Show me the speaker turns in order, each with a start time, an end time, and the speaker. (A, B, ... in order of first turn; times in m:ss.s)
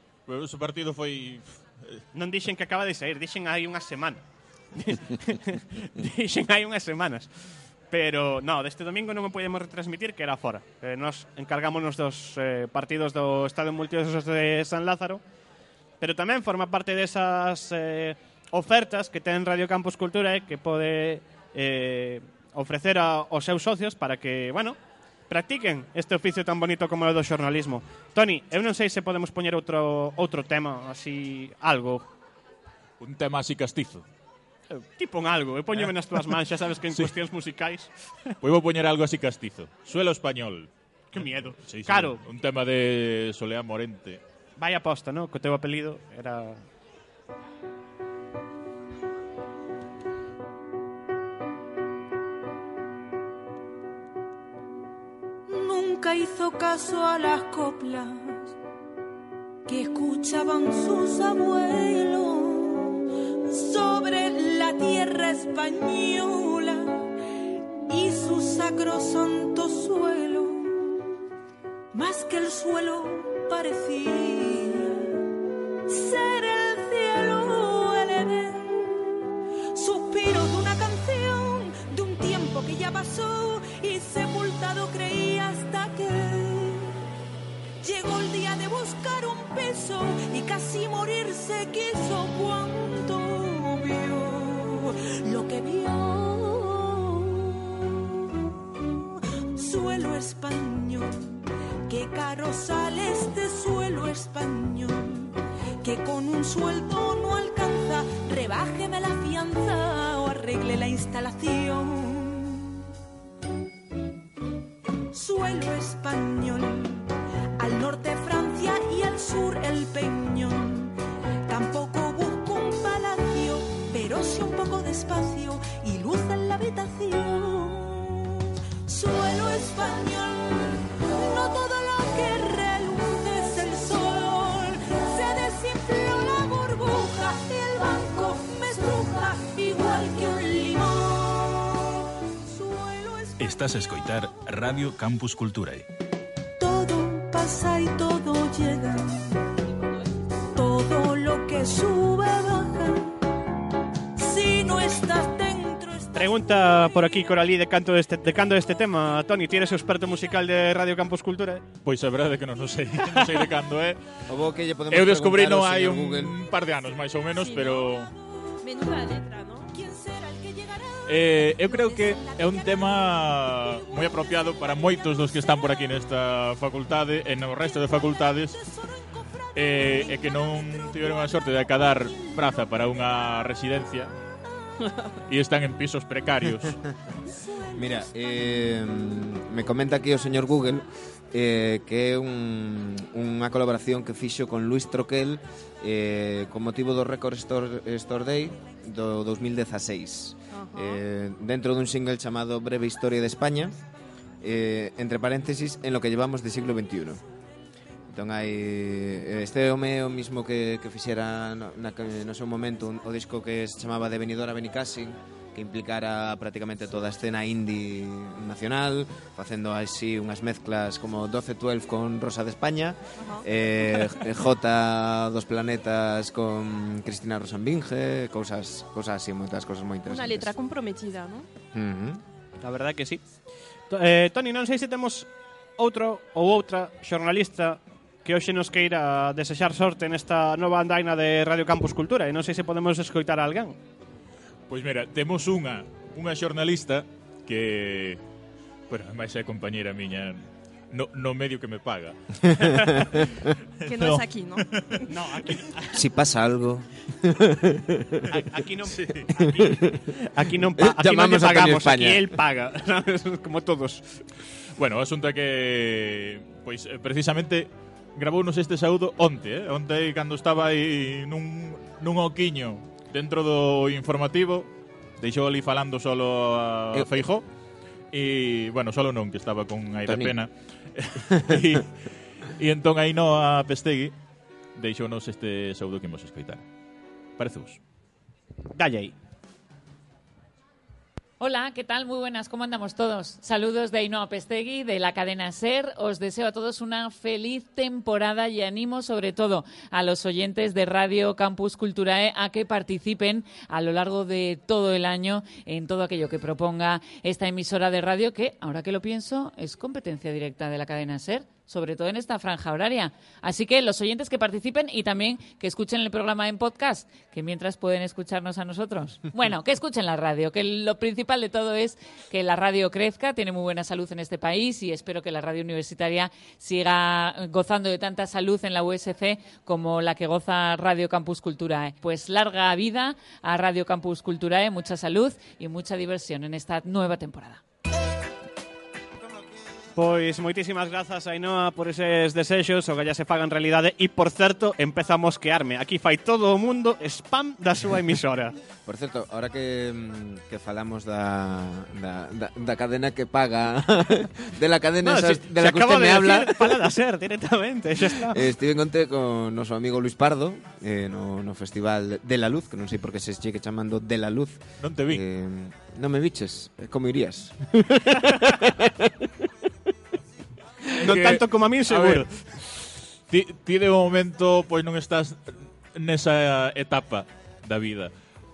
0:00.3-0:02.0 A
0:02.1-0:04.2 B
0:04.7-0:07.3 B
0:07.9-0:15.2 B
0:16.0-0:24.8 B
0:25.3-0:32.0 B
0:33.0-0:34.0 A
0:34.7-0:38.4 B
0:35.8-0:36.3 A
0:38.4-0:44.2 A
0:41.1-0:42.2 B
0:44.6-0:46.6 B
0:55.5-0:58.5 C
0:59.7-1:07.1 C
1:07.9-1:11.0 C
1:11.9-1:15.2 C
1:15.9-1:27.0 C
1:27.8-1:38.1 C
1:38.8-1:52.8 C
1:55.1-2:23.5 C
2:23.4-2:25.9 D
2:26.6-2:29.4 C
2:30.5-2:33.3 C
2:34.2-2:37.0 C
2:36.1-2:41.6 B
2:41.8-2:44.1 A
2:44.3-2:46.4 E
2:44.9-2:48.1 A
2:47.3-2:47.9 F
2:47.9-2:48.2 C
2:48.6-2:49.7 F
2:49.7-2:56.0 C
2:51.1-2:58.6 A
2:57.7-3:02.9 C
2:59.5-3:04.2 A
3:05.3-3:06.8 A
3:07.2-3:08.1 C
3:07.7-3:23.8 E
3:20.5-3:21.0 F
3:24.4-3:27.2 E
3:28.1-3:50.5 E
3:43.2-3:44.2 F
3:50.1-3:51.5 F
3:51.7-3:52.2 E
3:52.6-3:53.2 B
3:53.9-4:03.8 B
4:04.7-4:08.2 A
4:08.9-4:12.2 A
4:12.4-4:13.5 E
4:12.7-4:13.0 A
4:13.8-4:15.0 A
4:13.9-4:15.1 F
4:15.1-4:16.0 B
4:15.9-4:18.4 E
4:18.3-4:24.1 B
4:18.9-4:19.3 A
4:19.4-4:20.1 E
4:20.8-4:22.3 E
4:24.8-4:37.4 A
4:36.9-4:37.2 E
4:38.1-4:44.1 A
4:40.1-4:40.4 E
4:41.2-4:41.8 E
4:44.8-4:46.6 A
4:47.4-4:47.8 A
4:48.8-4:49.2 B
4:51.4-5:37.6 G
5:40.0-5:48.6 B
5:48.8-5:56.9 E
5:55.0-5:58.4 B
5:58.0-6:09.3 E
6:04.8-6:05.2 A
6:10.9-6:12.3 A
6:11.0-6:12.5 B
6:13.3-6:18.1 A